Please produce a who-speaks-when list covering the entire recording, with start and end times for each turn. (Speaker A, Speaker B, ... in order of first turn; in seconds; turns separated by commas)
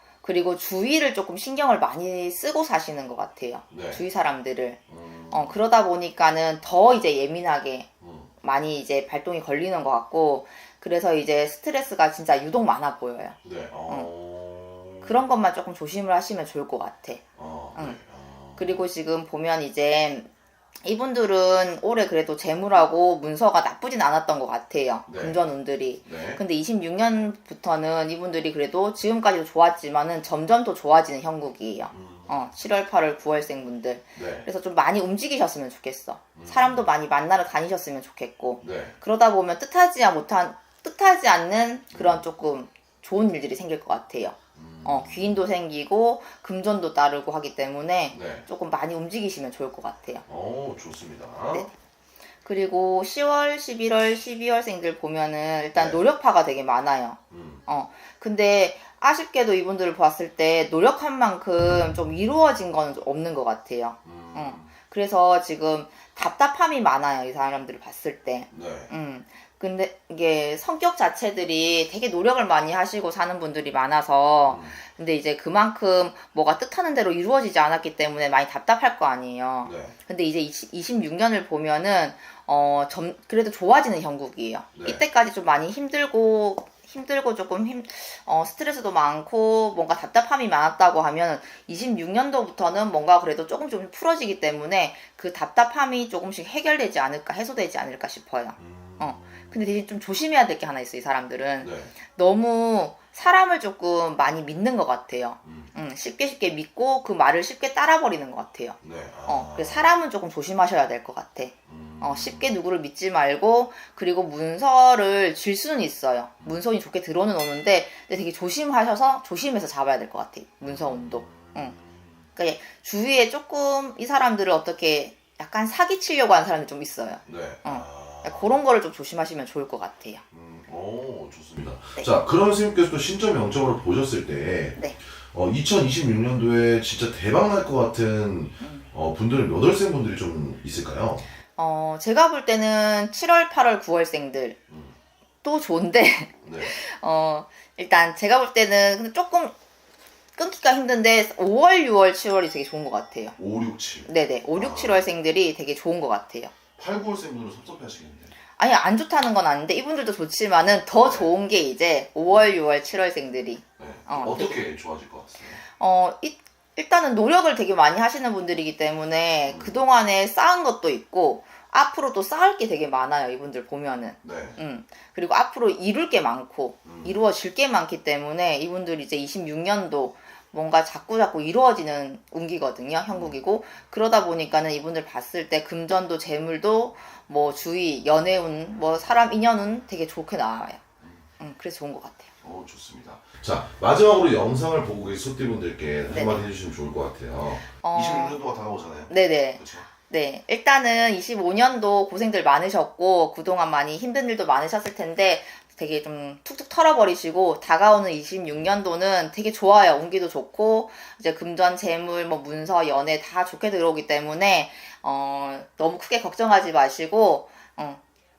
Speaker A: 0.2-4.8, Speaker B: 3.7-4.0, Speaker B: 4.9-5.6, Speaker A: 5.3-7.9, Speaker B: 8.0-8.3, Speaker A: 8.4-13.4, Speaker B: 13.4-15.2, Speaker A: 15.0-17.2, Speaker B: 17.4-18.9, Speaker A: 18.6-20.3, Speaker A: 20.8-50.2, Speaker B: 25.1-25.5, Speaker B: 26.0-26.4, Speaker B: 31.9-32.5, Speaker B: 34.1-34.5, Speaker B: 36.3-37.0, Speaker B: 38.6-39.0, Speaker B: 41.9-42.2, Speaker B: 44.5-45.5, Speaker B: 48.1-48.5, Speaker B: 50.2-51.7, Speaker A: 52.4-121.7, Speaker B: 55.7-56.0, Speaker B: 57.3-57.6, Speaker B: 64.0-64.7, Speaker B: 68.5-68.9, Speaker B: 74.5-74.8, Speaker B: 79.6-79.9, Speaker B: 84.7-85.0, Speaker B: 98.6-99.5, Speaker B: 101.6-101.9, Speaker B: 105.4-105.7, Speaker B: 108.8-109.9, Speaker B: 111.7-112.6, Speaker B: 120.6-122.3, Speaker A: 122.3-130.2, Speaker B: 127.2-128.6, Speaker B: 130.3-141.3, Speaker A: 141.6-144.6, Speaker B: 144.7-145.0, Speaker A: 145.4-149.5, Speaker B: 146.4-146.7, Speaker A: 150.4-153.4, Speaker B: 153.4-155.1, Speaker A: 154.1-156.5, Speaker B: 156.8-158.3, Speaker A: 158.6-164.6, Speaker B: 161.0-161.3, Speaker B: 162.3-162.5, Speaker B: 163.8-165.6, Speaker A: 165.7-190.8, Speaker B: 169.5-169.8, Speaker B: 174.2-174.6, Speaker B: 176.8-177.2, Speaker B: 183.1-183.4, Speaker A: 191.4-192.3, Speaker B: 192.4-199.9, Speaker A: 196.1-196.5, Speaker A: 197.8-198.4, Speaker A: 199.1-218.0